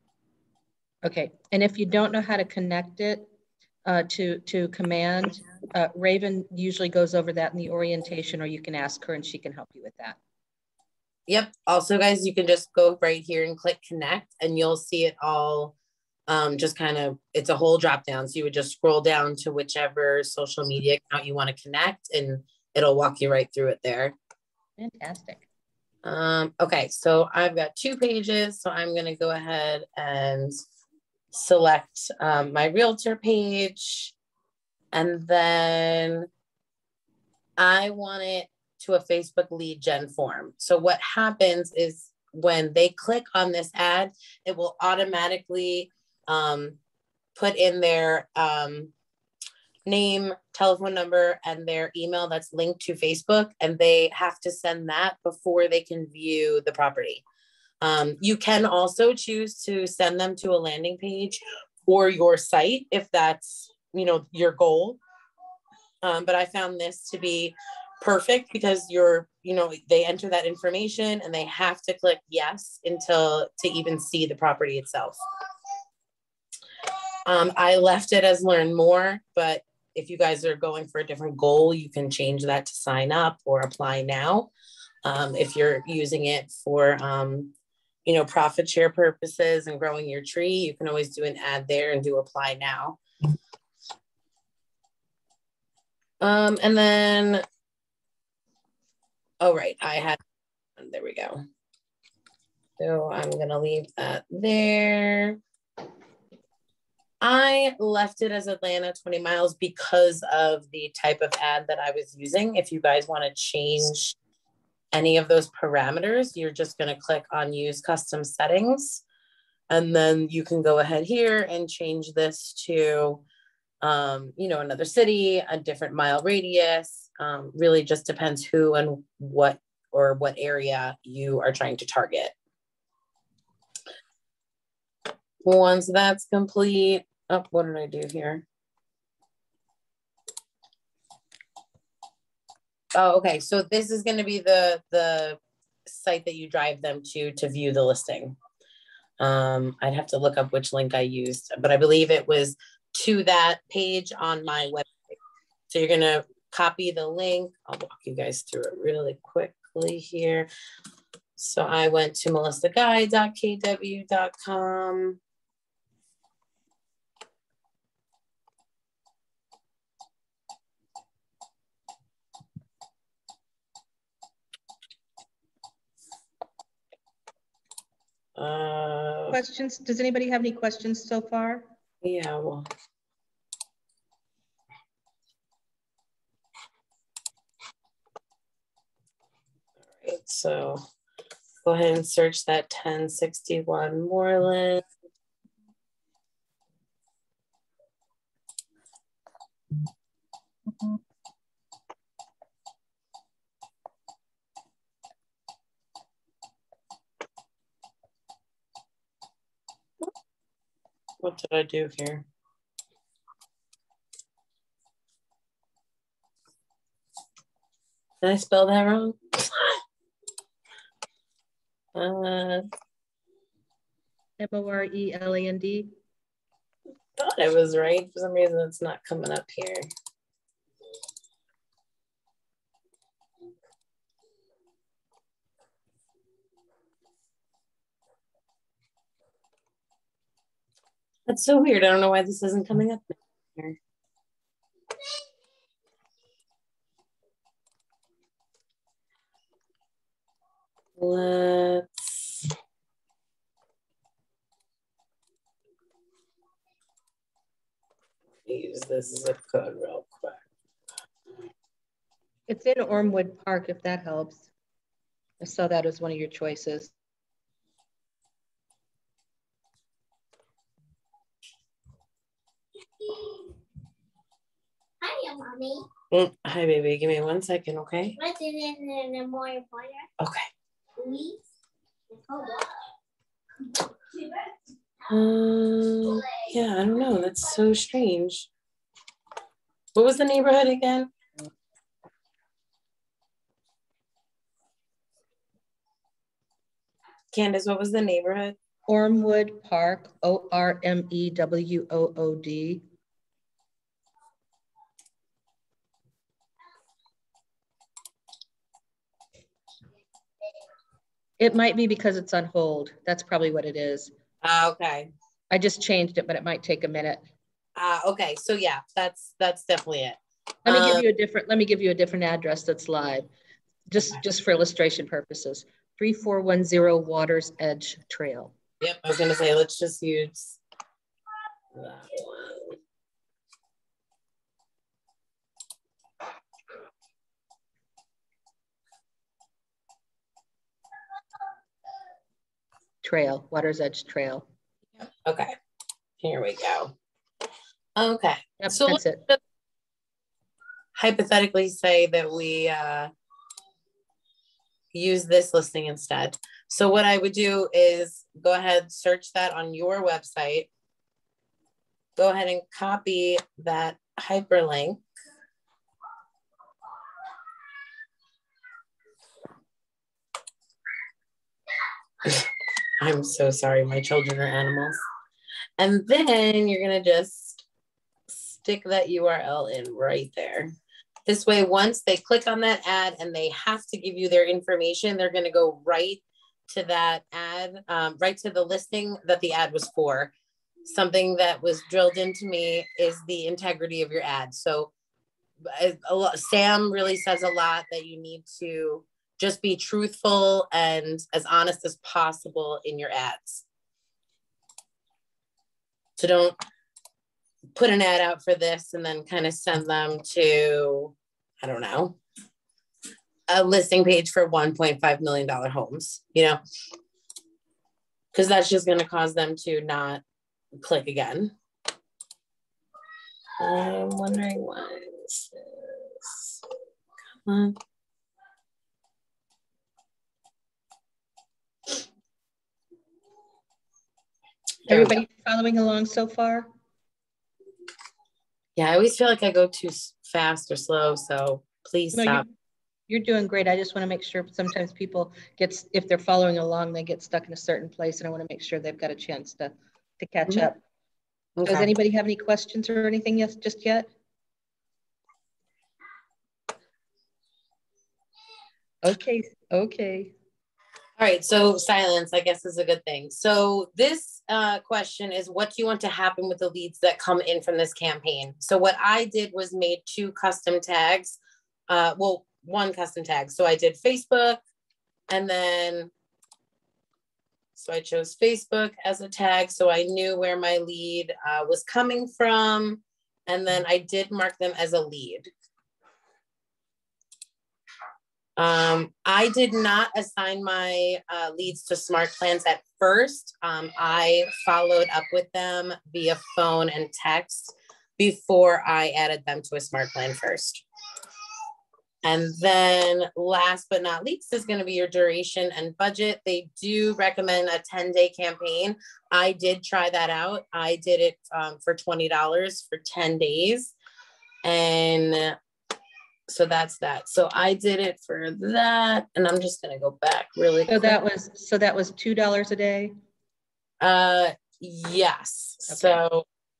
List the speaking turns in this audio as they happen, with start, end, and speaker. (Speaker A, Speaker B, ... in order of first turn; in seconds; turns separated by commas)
Speaker A: 1.0-3.3, Speaker A: 3.8-10.2, Speaker B: 11.3-15.7, Speaker B: 16.3-24.1, Speaker A: 24.8-25.4, Speaker B: 26.0-30.6, Speaker B: 31.3-34.1, Speaker B: 34.9-36.3, Speaker B: 37.6-46.8, Speaker B: 47.3-48.9, Speaker B: 49.9-57.2, Speaker B: 57.8-65.0, Speaker B: 66.0-75.2, Speaker B: 77.3-84.5, Speaker B: 85.0-87.5, Speaker B: 88.0-93.0, Speaker B: 96.2-97.4, Speaker B: 99.4-100.2, Speaker B: 100.8-101.4, Speaker B: 102.8-105.4, Speaker B: 107.2-114.2, Speaker B: 114.9-119.0, Speaker B: 119.7-123.2, Speaker B: 123.8-132.3, Speaker B: 135.4-138.4, Speaker B: 142.9-148.3, Speaker B: 149.2-154.9, Speaker B: 155.7-160.5, Speaker B: 161.4-165.2, Speaker B: 178.4-179.4, Speaker A: 179.3-181.6, Speaker B: 182.0-182.7, Speaker B: 190.0-190.8, Speaker B: 191.6-194.8, Speaker B: 211.2-212.2, Speaker B: 218.2-219.8, Speaker B: 221.9-222.7, Speaker A: 224.4-225.9, Speaker B: 227.2-229.9, Speaker B: 241.3-243.8, Speaker B: 251.0-252.4, Speaker B: 258.4-260.4, Speaker A: 262.5-264.5, Speaker A: 265.4-266.9, Speaker C: 275.0-275.9, Speaker B: 276.1-278.1, Speaker C: 278.2-280.0, Speaker B: 280.2-280.5, Speaker C: 281.0-281.4, Speaker C: 282.1-282.8, Speaker B: 285.1-288.5, Speaker B: 289.9-291.1, Speaker B: 297.3-298.6, Speaker A: 298.9-302.8, Speaker A: 311.4-314.1, Speaker B: 314.4-315.1, Speaker A: 315.5-317.2, Speaker B: 317.8-321.0, Speaker A: 320.6-323.3, Speaker A: 323.9-328.5, Speaker B: 328.8-330.6, Speaker B: 331.7-332.7, Speaker A: 343.0-344.4, Speaker B: 345.2-345.5, Speaker B: 346.2-346.9, Speaker B: 347.9-349.4, Speaker A: 348.6-349.2, Speaker B: 350.9-353.1, Speaker B: 354.9-360.7, Speaker B: 362.2-365.0, Speaker B: 373.0-375.0, Speaker B: 375.8-377.6, Speaker B: 378.3-380.7, Speaker B: 381.3-390.3, Speaker B: 390.8-394.9, Speaker B: 395.6-403.6, Speaker B: 406.2-406.6, Speaker B: 407.7-412.2, Speaker B: 413.5-416.6, Speaker B: 418.3-420.2, Speaker B: 420.8-421.5, Speaker B: 423.6-426.6, Speaker B: 427.4-427.8, Speaker B: 434.9-435.2, Speaker A: 434.9-436.7, Speaker B: 438.8-442.4, Speaker A: 442.1-442.5, Speaker A: 443.1-450.8, Speaker B: 451.6-451.9, Speaker A: 451.6-454.1, Speaker A: 459.0-460.3, Speaker B: 461.2-471.4, Speaker B: 471.9-474.6, Speaker B: 475.3-476.1, Speaker B: 477.8-485.5, Speaker B: 488.6-500.8, Speaker B: 502.2-513.9, Speaker B: 514.6-515.5, Speaker B: 516.5-521.2, Speaker A: 520.9-523.1, Speaker B: 524.0-526.5, Speaker A: 525.9-526.2